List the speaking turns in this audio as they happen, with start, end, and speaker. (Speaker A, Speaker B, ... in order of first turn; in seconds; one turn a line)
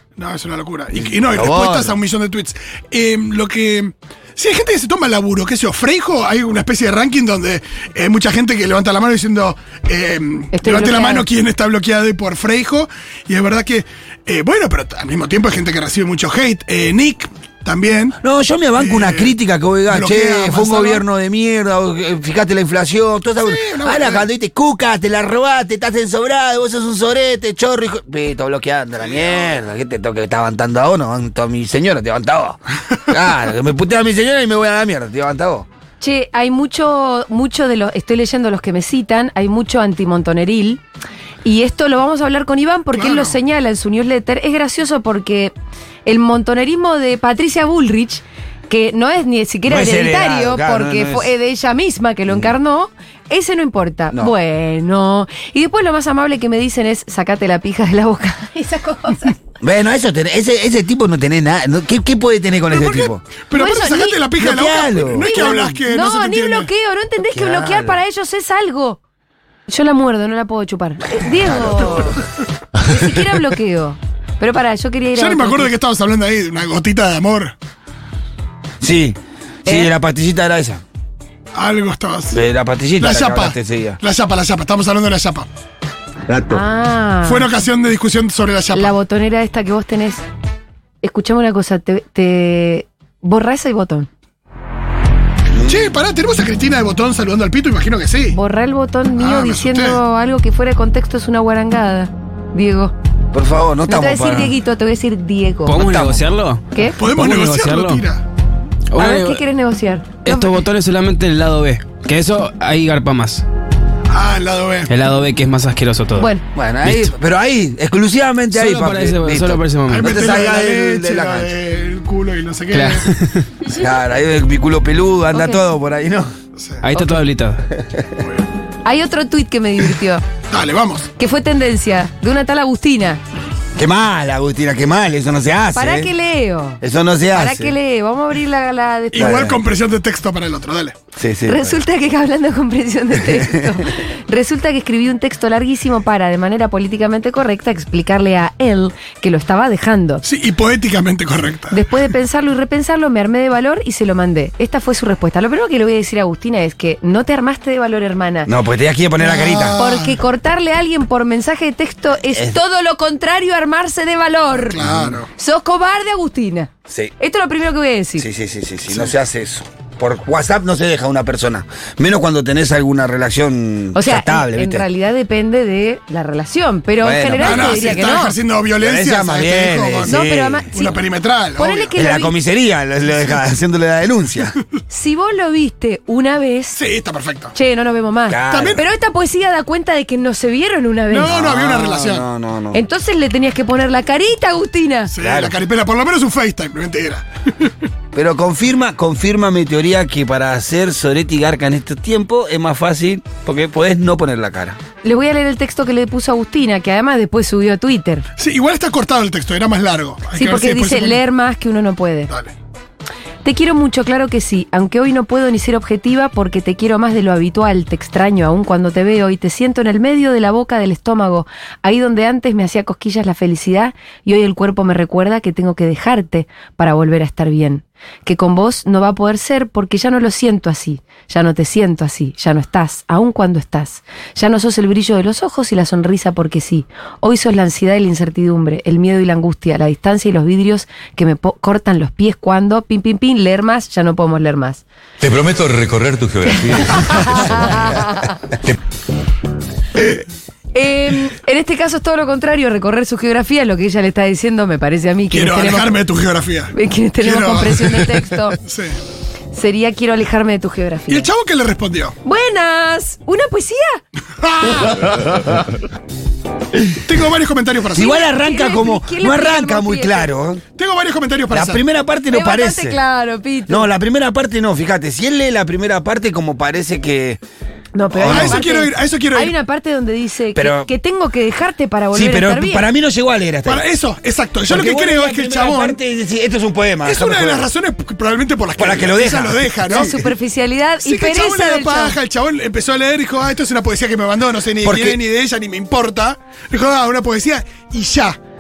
Speaker A: 0.2-18.2
Speaker B: 1.0-1.9
Speaker C: 10.5-11.2
Speaker B: 18.2-35.7
Speaker A: 18.8-19.3
Speaker A: 19.9-21.0
Speaker A: 23.4-24.2
Speaker A: 29.0-29.6
Speaker C: 36.0-40.8
Speaker C: 41.4-45.5
Speaker A: 42.9-43.3
Speaker C: 46.0-59.4
Speaker B: 49.6-51.3
Speaker B: 59.6-63.2
Speaker A: 62.7-66.7
Speaker C: 63.5-64.2
Speaker B: 64.4-65.5
Speaker C: 65.2-69.0
Speaker B: 67.3-68.0
Speaker C: 69.7-72.2
Speaker C: 72.9-75.7
Speaker A: 75.1-77.5
Speaker B: 78.8-80.8
Speaker C: 79.7-79.9
Speaker A: 81.5-82.4
Speaker B: 82.3-84.0
Speaker A: 83.0-85.5
Speaker B: 86.3-86.6
Speaker C: 86.5-87.5
Speaker A: 87.2-88.9
Speaker C: 88.7-90.2
Speaker C: 91.0-94.1
Speaker B: 95.6-95.9
Speaker A: 95.6-98.4
Speaker C: 98.3-102.9
Speaker A: 99.2-100.0
Speaker B: 103.3-104.5
Speaker C: 103.8-105.8
Speaker D: 105.7-108.0
Speaker B: 105.8-106.2
Speaker A: 107.0-108.2
Speaker D: 108.9-109.4
Speaker C: 109.0-110.6
Speaker D: 110.2-113.4
Speaker A: 114.1-114.9
Speaker D: 114.9-116.3
Speaker C: 116.2-116.4
Speaker B: 116.5-121.5
Speaker D: 116.8-117.1
Speaker D: 118.5-120.2
Speaker A: 119.9-123.1
Speaker D: 122.7-123.4
Speaker B: 123.7-126.3
Speaker C: 125.3-125.6
Speaker D: 126.8-127.6
Speaker C: 126.9-127.2
Speaker B: 127.8-128.0
Speaker C: 128.8-130.2
Speaker A: 130.5-131.1
Speaker C: 131.2-133.2
Speaker B: 133.8-136.1
Speaker C: 135.7-136.8
Speaker B: 136.8-137.7
Speaker C: 137.3-139.5
Speaker A: 139.1-141.0
Speaker B: 139.2-139.6
Speaker B: 141.2-141.8
Speaker C: 141.5-150.2
Speaker A: 150.2-151.8
Speaker C: 151.7-158.5
Speaker B: 158.4-159.8
Speaker A: 159.2-160.2
Speaker C: 159.8-164.8
Speaker B: 162.3-162.6
Speaker A: 164.5-165.3
Speaker B: 164.8-165.2
Speaker C: 165.3-168.2
Speaker B: 168.2-174.8
Speaker C: 173.9-178.3
Speaker B: 177.0-178.0
Speaker A: 177.3-180.2
Speaker B: 178.8-180.7
Speaker C: 180.1-181.0
Speaker A: 180.7-181.9
Speaker C: 181.6-182.3
Speaker B: 181.9-184.5
Speaker C: 184.9-186.8
Speaker A: 186.7-187.5
Speaker C: 187.5-191.3
Speaker B: 188.3-188.8
Speaker A: 188.5-188.8
Speaker A: 191.1-192.2
Speaker B: 191.2-192.8
Speaker C: 192.7-195.1
Speaker A: 195.1-197.7
Speaker B: 195.2-195.6
Speaker B: 198.1-204.8
Speaker C: 205.0-208.2
Speaker A: 208.4-211.2
Speaker C: 210.3-212.3
Speaker C: 213.4-244.8
Speaker E: 245.2-247.9
Speaker C: 246.9-248.3
Speaker C: 250.7-255.9
Speaker A: 255.3-259.0
Speaker C: 256.7-258.6
Speaker C: 259.5-261.3
Speaker A: 261.1-262.1
Speaker C: 262.2-264.0
Speaker A: 264.4-265.1
Speaker A: 267.0-268.2
Speaker B: 267.9-270.6
Speaker C: 267.9-270.3
Speaker A: 270.7-271.8
Speaker B: 271.5-273.0
Speaker C: 272.3-273.9
Speaker B: 273.7-277.4
Speaker C: 277.9-282.8
Speaker B: 278.1-278.6
Speaker A: 278.2-279.5
Speaker B: 280.5-280.9
Speaker B: 282.1-283.8
Speaker A: 283.6-286.0
Speaker B: 284.7-287.7
Speaker A: 287.0-290.1
Speaker B: 288.8-290.1
Speaker C: 289.9-292.1
Speaker A: 291.0-298.4
Speaker B: 294.8-295.2